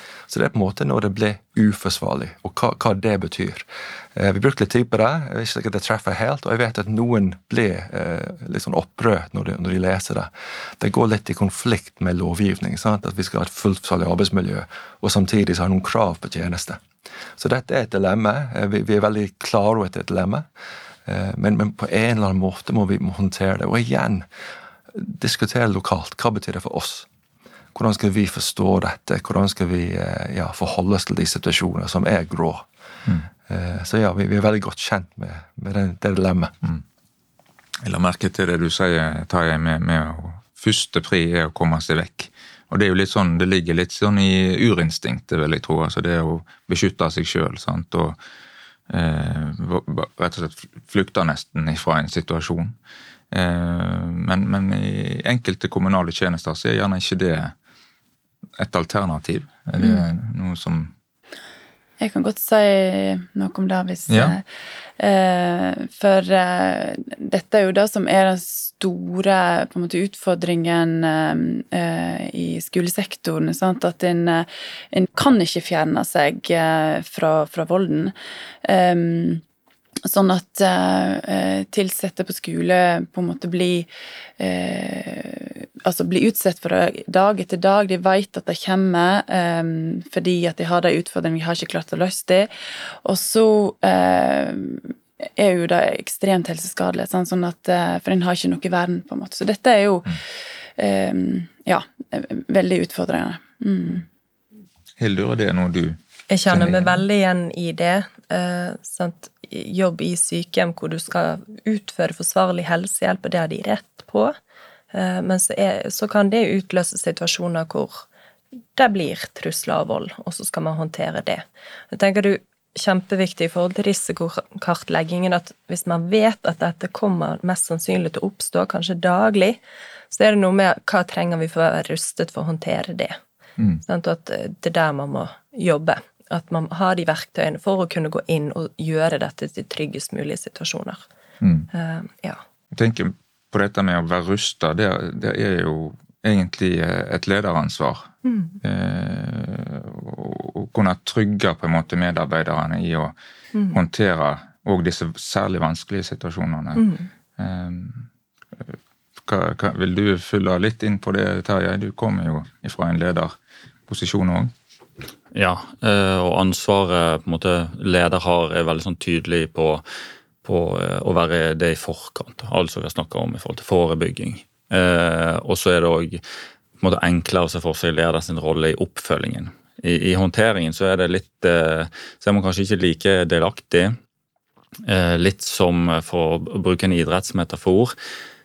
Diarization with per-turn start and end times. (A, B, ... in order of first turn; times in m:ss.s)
0:00.3-0:16.8 A
0:17.4-0:20.5 A
0:21.0-0:24.2 A
0:24.9-0:27.1 A
0:27.7-0:32.7 A
0:33.5-0:36.5 A
0:37.8-0:48.2 B
0:48.9-0:52.7 B
0:53.3-0:57.5 B
0:58.6-1:00.9 B
1:02.0-1:04.4 C
1:04.1-1:04.3 B
1:05.0-1:19.4 C
1:20.0-1:40.2 C
1:40.8-1:44.0 C
1:45.0-1:47.0 B
1:46.3-1:54.3 D
1:54.9-1:58.1 D
1:58.7-2:13.2 D
2:13.8-2:21.0 D
2:21.4-2:21.7 B
2:21.7-2:22.4 D
2:22.7-2:28.1 B
2:28.2-2:28.6 D
2:28.6-2:33.2 B
2:33.7-2:38.1 B
2:36.8-2:37.0 D
2:39.2-2:43.4 B
2:43.9-2:44.5 B
2:45.3-2:49.8 E
2:50.4-2:56.2 E
2:56.8-3:03.9 E
3:04.8-3:07.9 E